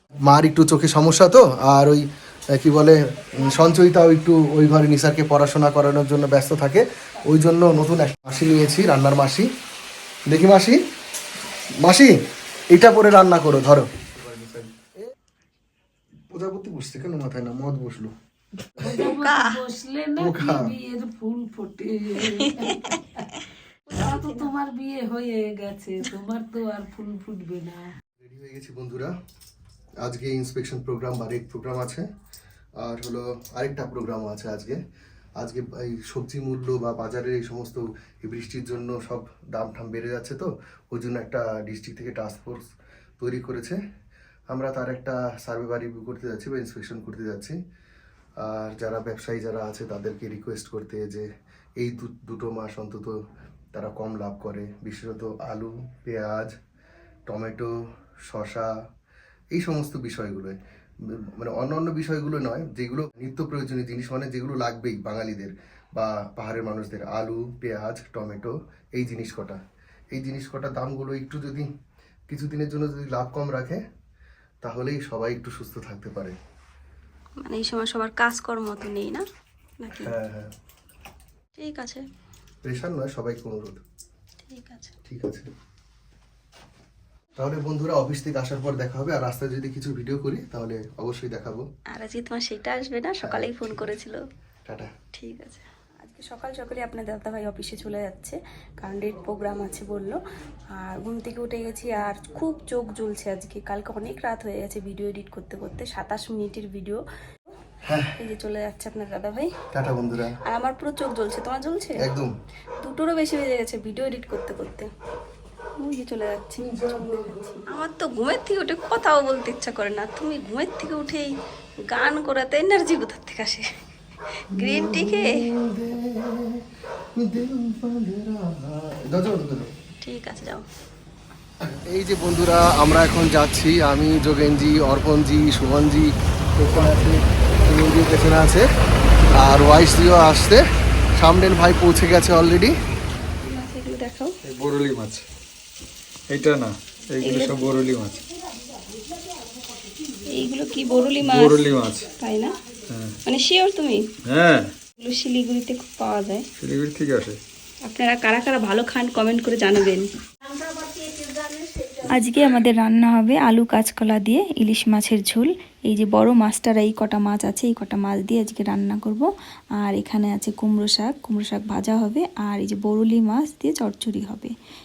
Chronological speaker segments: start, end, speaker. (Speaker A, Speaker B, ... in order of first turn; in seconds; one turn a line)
Speaker A: 0.2-9.5
Speaker A: 10.3-10.8
Speaker A: 11.8-15.0
Speaker A: 16.3-18.1
Speaker B: 18.8-23.3
Speaker A: 18.8-19.0
Speaker C: 18.8-19.6
Speaker A: 20.2-20.7
Speaker C: 22.3-23.0
Speaker B: 23.9-27.9
Speaker C: 24.0-24.5
Speaker A: 28.2-29.1
Speaker A: 30.0-32.1
Speaker A: 32.8-34.8
Speaker A: 35.4-42.7
Speaker A: 43.2-43.8
Speaker A: 44.5-47.6
Speaker A: 48.4-53.2
Speaker A: 53.7-56.5
Speaker A: 57.3-57.7
Speaker A: 58.2-58.7
Speaker A: 59.5-69.6
Speaker A: 70.1-71.7
Speaker A: 72.3-73.8
Speaker A: 74.6-76.4
Speaker C: 77.4-79.2
Speaker C: 79.8-80.1
Speaker A: 79.9-80.5
Speaker C: 81.5-82.0
Speaker A: 82.6-83.8
Speaker C: 84.5-84.9
Speaker A: 85.0-85.5
Speaker A: 87.3-91.7
Speaker C: 91.9-94.2
Speaker A: 93.2-94.0
Speaker A: 94.7-94.9
Speaker C: 95.1-100.2
Speaker C: 100.8-107.0
Speaker A: 107.8-108.2
Speaker C: 108.2-109.5
Speaker A: 109.7-110.3
Speaker C: 110.4-112.0
Speaker A: 112.0-112.3
Speaker C: 112.8-114.9
Speaker C: 115.8-121.3
Speaker A: 116.6-117.6
Speaker C: 121.9-123.7
Speaker C: 124.4-125.4
Speaker A: 124.5-129.7
Speaker C: 130.0-130.6
Speaker A: 131.6-138.7
Speaker A: 139.3-140.6
Speaker A: 141.2-142.7
Speaker C: 143.2-144.3
Speaker D: 144.4-145.2
Speaker D: 146.3-148.2
Speaker C: 147.2-147.7
Speaker B: 147.6-152.9
Speaker C: 150.3-151.7
Speaker D: 151.2-152.1
Speaker C: 152.2-152.6
Speaker D: 152.9-153.2
Speaker C: 153.2-154.0
Speaker D: 154.2-154.7
Speaker C: 155.0-156.4
Speaker D: 156.6-157.4
Speaker C: 157.9-160.1
Speaker B: 160.4-162.3
Speaker C: 162.1-174.5